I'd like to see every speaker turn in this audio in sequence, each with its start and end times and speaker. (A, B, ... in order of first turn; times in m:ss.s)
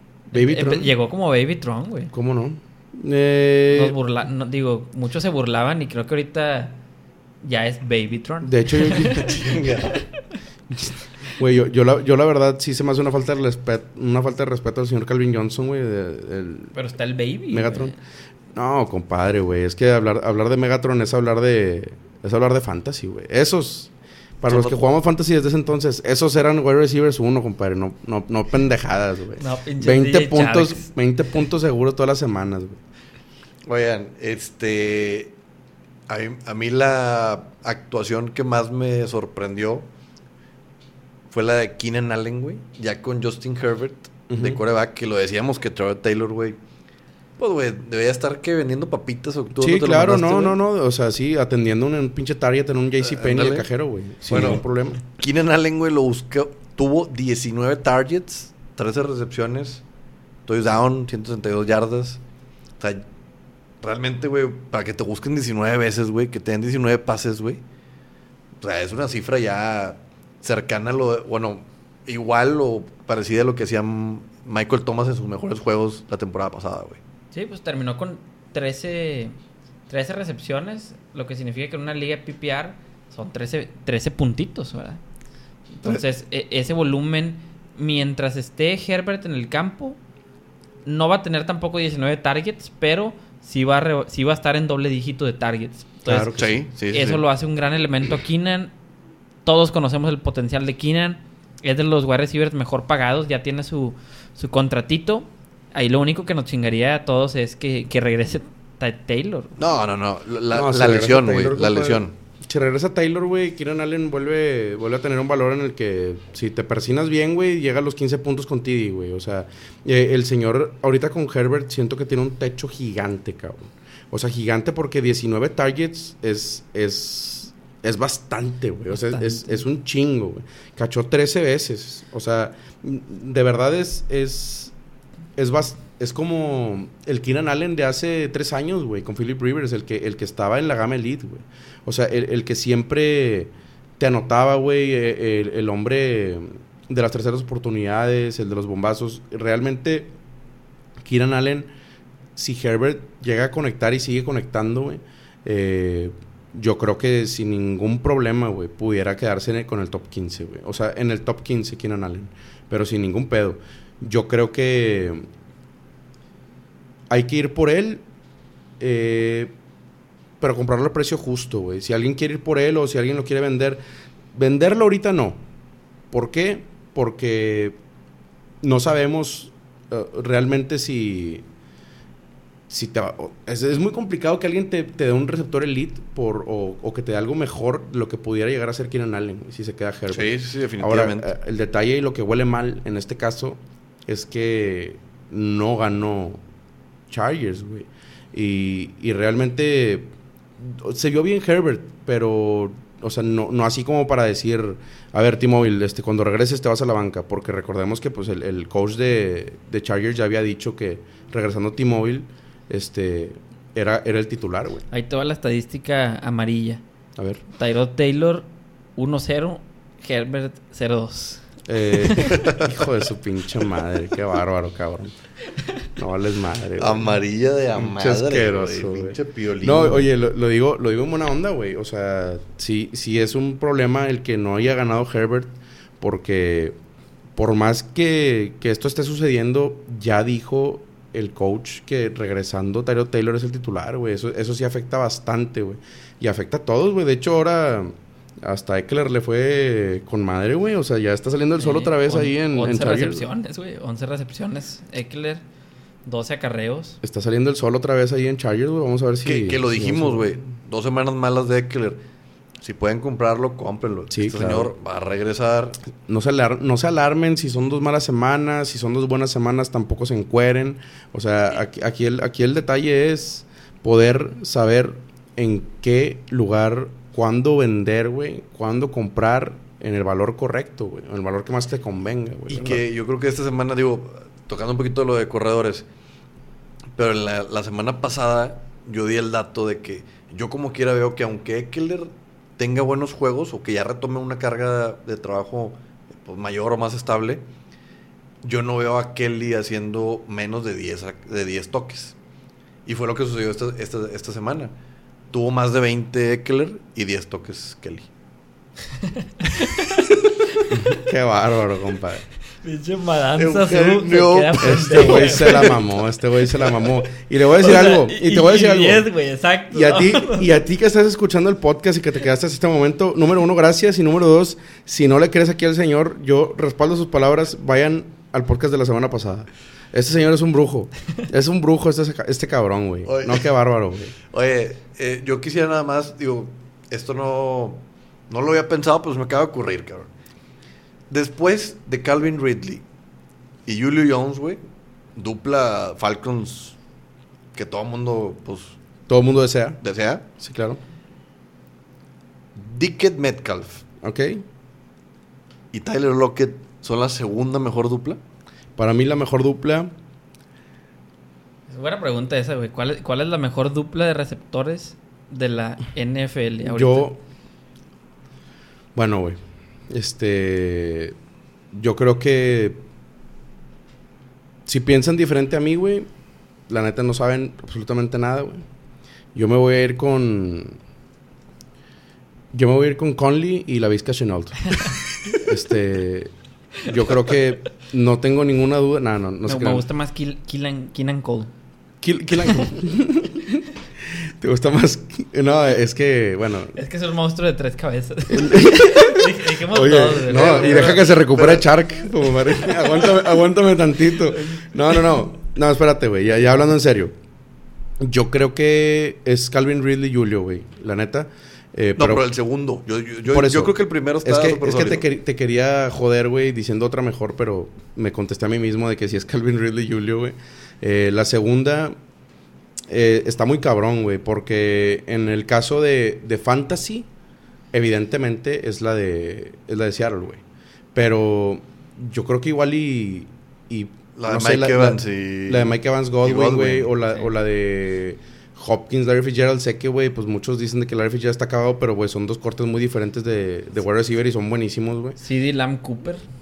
0:00.3-0:02.1 A
0:00.3-0:00.9 B
0:02.1-0:04.0 B
0:03.7-0:06.8 A
0:07.4-0:10.0 A
0:08.4-0:09.3 B
0:09.0-0:10.0 C
0:10.7-0:16.8 B
0:16.7-0:18.0 A
0:17.5-0:18.0 B
0:18.5-0:32.8 B
0:24.5-0:24.9 C
0:29.4-0:30.9 A
0:33.7-0:35.3 C
0:36.1-0:39.9 C
0:41.3-0:46.6 C
0:44.3-0:44.6 B
0:47.4-0:50.6 C
0:49.6-0:55.0 B
0:53.0-0:53.7 C
0:54.3-0:59.8 C
1:00.5-1:02.2 C
1:02.8-1:03.0 C
1:03.8-1:07.6 C
1:08.6-1:17.0 C
1:17.3-1:19.4 A
1:19.9-1:25.0 A
1:25.7-1:30.0 A
1:30.8-1:36.4 A
1:36.1-1:36.6 B
1:36.3-1:37.2 C
1:36.9-1:38.7 A
1:39.4-1:49.6 A
1:49.6-1:52.1 C
1:50.5-2:14.7 B
2:08.9-2:09.6 A
2:15.4-2:30.1 B
2:31.0-2:31.7 B
2:32.4-2:45.3 B
2:47.1-2:48.0 B
2:48.8-2:49.5 B
2:50.4-2:53.8 B
2:54.3-2:55.4 B
2:56.1-2:57.8 B
2:58.6-3:01.4 B
3:02.7-3:16.4 B
3:10.1-3:11.3 C
3:17.1-3:34.8 B
3:34.9-3:36.8 A
3:37.2-3:37.4 B
3:37.5-3:41.5 A
3:41.7-3:45.1 B
3:42.0-3:42.5 A
3:42.2-3:42.6 C
3:46.0-3:47.2 B
3:46.8-3:50.1 C
3:47.8-3:56.8 B
3:57.4-4:07.9 B
4:08.4-4:13.3 B
4:11.6-4:15.4 A
4:16.1-4:17.0 A
4:17.0-4:20.4 B
4:19.2-4:22.0 C
4:22.6-4:25.8 C
4:24.1-4:24.7 B
4:26.1-4:42.8 B
4:42.5-4:45.8 C
4:47.0-4:57.4 C
4:58.4-5:02.2 C
5:02.9-5:04.7 C
5:05.3-5:08.1 C
5:09.0-5:11.0 A
5:10.7-5:12.3 B
5:12.6-5:15.8 A
5:13.4-5:15.8 C
5:14.6-5:19.1 B
5:17.6-5:20.5 A
5:19.7-5:34.2 B
5:33.1-5:33.5 C
5:34.3-5:40.1 C
5:41.1-5:42.8 C
5:43.7-5:44.6 C
5:45.2-5:46.8 C
5:47.5-5:48.8 C
5:49.1-5:49.8 B
5:49.8-5:50.3 C
5:50.4-5:50.8 B
5:52.6-5:53.8 C
5:54.0-5:54.4 B
5:55.7-5:58.2 C
5:58.8-5:59.9 B
6:01.7-6:07.1 A
6:06.6-6:07.2 B
6:09.0-6:11.2 B
6:11.7-6:12.8 B
6:14.7-6:16.1 B
6:16.7-6:18.6 B
6:19.3-6:20.8 B
6:22.5-6:26.3 B
6:26.8-6:29.8 B
6:29.5-6:31.5 A
6:32.0-6:36.8 B
6:36.8-6:41.0 A
6:38.3-6:47.1 B
6:40.3-6:43.1 C
6:44.3-6:45.0 A
6:48.0-6:52.3 B
6:52.0-6:55.0 C
6:53.3-7:02.0 B
7:02.9-7:07.1 B
7:07.7-7:10.4 B
7:10.9-7:25.2 B
7:14.2-7:16.9 C
7:25.2-7:26.2 A